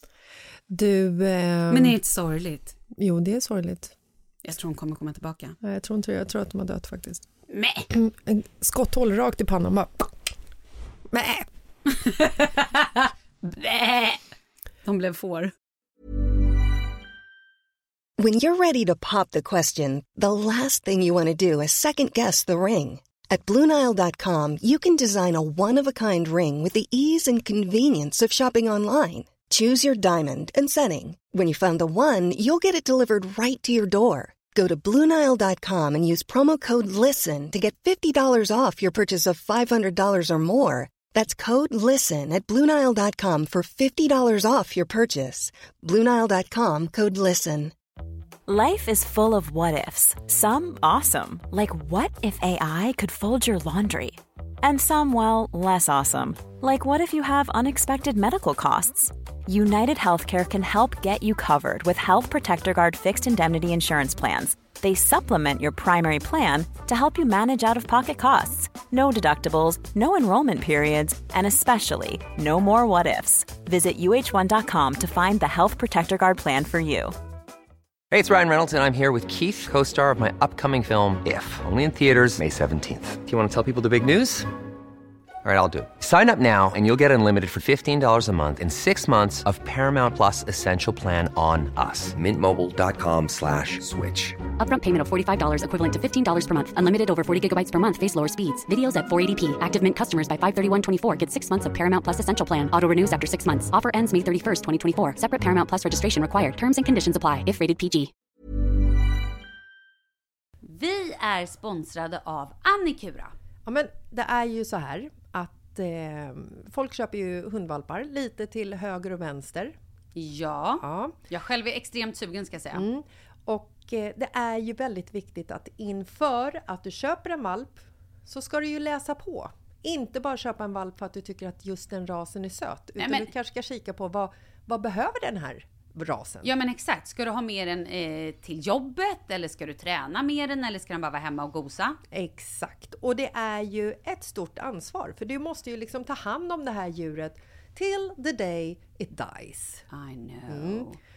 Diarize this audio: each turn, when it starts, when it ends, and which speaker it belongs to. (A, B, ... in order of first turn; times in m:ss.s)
0:00.7-0:02.0 A
0:01.7-0:02.7 B
0:03.0-0:03.9 A
0:04.4-0:05.6 B
0:05.6-0:07.2 A
0:07.5-0:07.9 B
0:07.9-0:10.1 A
0:11.1-0:11.5 A
0:11.9-0:14.2 B
0:14.8-0:15.5 B
0:18.2-0:47.7 C
0:48.5-1:17.1 D
1:18.1-1:24.5 E
1:25.4-1:34.4 E
1:34.6-1:48.1 F
1:50.6-1:53.3 B
1:53.6-1:59.8 A
2:00.1-2:02.8 B
2:00.8-2:01.2 A
2:02.7-2:16.5 A
2:13.0-2:13.3 B
2:16.4-2:22.0 B
2:22.1-2:29.8 A
2:29.9-2:31.0 B
2:30.5-2:30.9 A